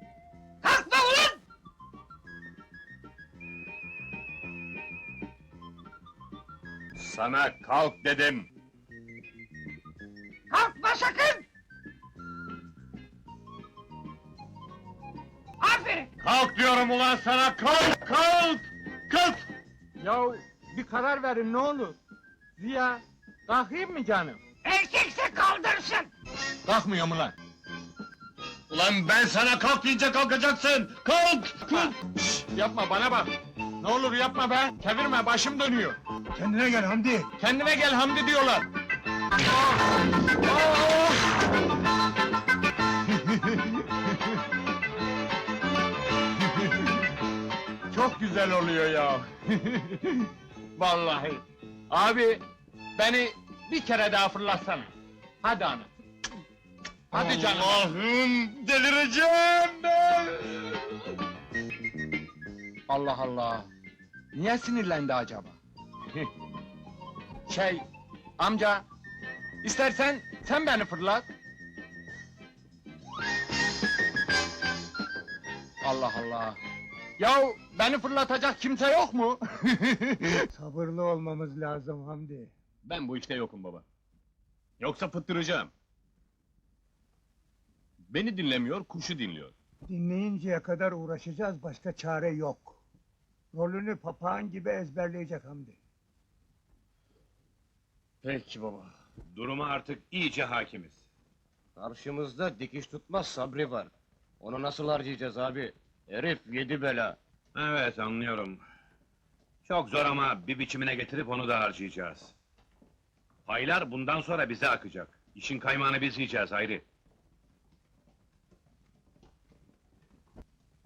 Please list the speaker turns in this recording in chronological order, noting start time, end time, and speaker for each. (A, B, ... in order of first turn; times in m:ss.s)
0:00.7-0:01.4 A
0:07.0-0:08.5 B
0:10.5-0:11.4 A
0:16.2-0:19.4 B
0:20.0-0:22.0 C
0:22.6-0:24.5 C
0:24.6-0:26.1 A
0:26.6-0:27.4 C
0:28.7-0:31.9 B
0:31.7-0:36.0 C
0:36.3-0:37.3 D
0:37.4-0:38.7 C
0:40.4-0:41.2 C
0:43.2-0:43.7 C
0:47.9-0:52.4 C
0:53.0-0:54.9 C
0:55.4-0:55.9 C
0:57.1-0:57.9 C
0:57.1-1:00.9 B
1:02.9-1:03.7 C
1:04.3-1:05.6 C
1:07.5-1:07.8 C
1:08.4-1:08.8 C
1:09.6-1:11.2 C
1:15.8-1:16.6 C
1:17.2-1:20.5 C
1:20.5-1:22.5 D
1:22.8-1:23.8 B
1:24.8-1:25.7 B
1:28.1-1:29.5 B
1:29.9-1:32.8 D
1:33.5-1:35.8 D
1:38.2-1:41.0 B
1:41.8-1:43.9 E
1:44.4-1:47.2 E
1:47.5-1:48.6 B
1:49.6-1:52.4 B
1:53.5-1:56.8 B